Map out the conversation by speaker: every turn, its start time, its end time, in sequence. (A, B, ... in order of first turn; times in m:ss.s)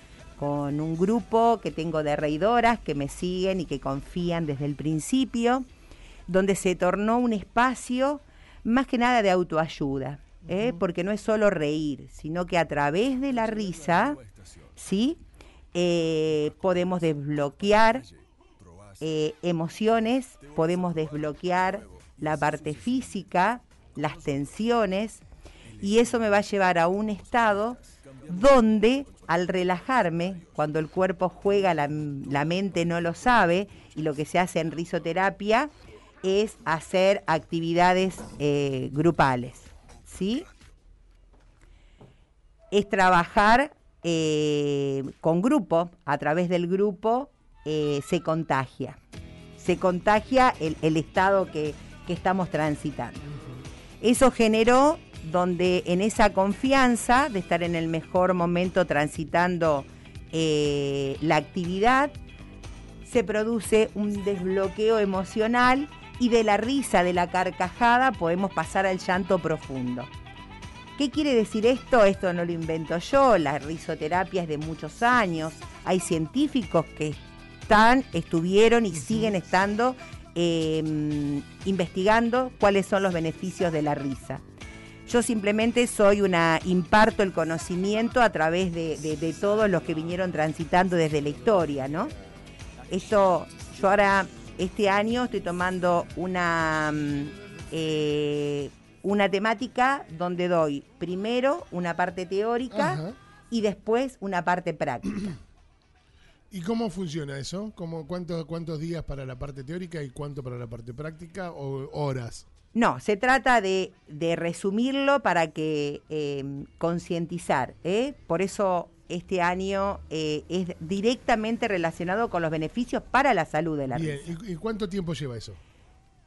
0:00.4-0:05.7 A
0:06.3-0:14.2 A
0:10.5-0:10.8 B
0:14.8-0:15.2 A
0:15.7-0:18.1 A
0:19.0-0:25.2 A
0:25.8-0:35.7 A
0:36.2-0:40.5 A
0:42.7-0:49.0 A
0:49.6-0:53.3 A
0:54.0-1:02.1 A
1:03.0-1:10.1 A
1:11.0-1:24.4 A
1:18.9-1:19.3 B
1:25.1-1:32.1 A
1:32.9-1:45.4 A
1:42.7-1:43.2 B
1:46.5-1:52.5 B
1:52.8-2:04.3 A
2:03.9-2:05.6 B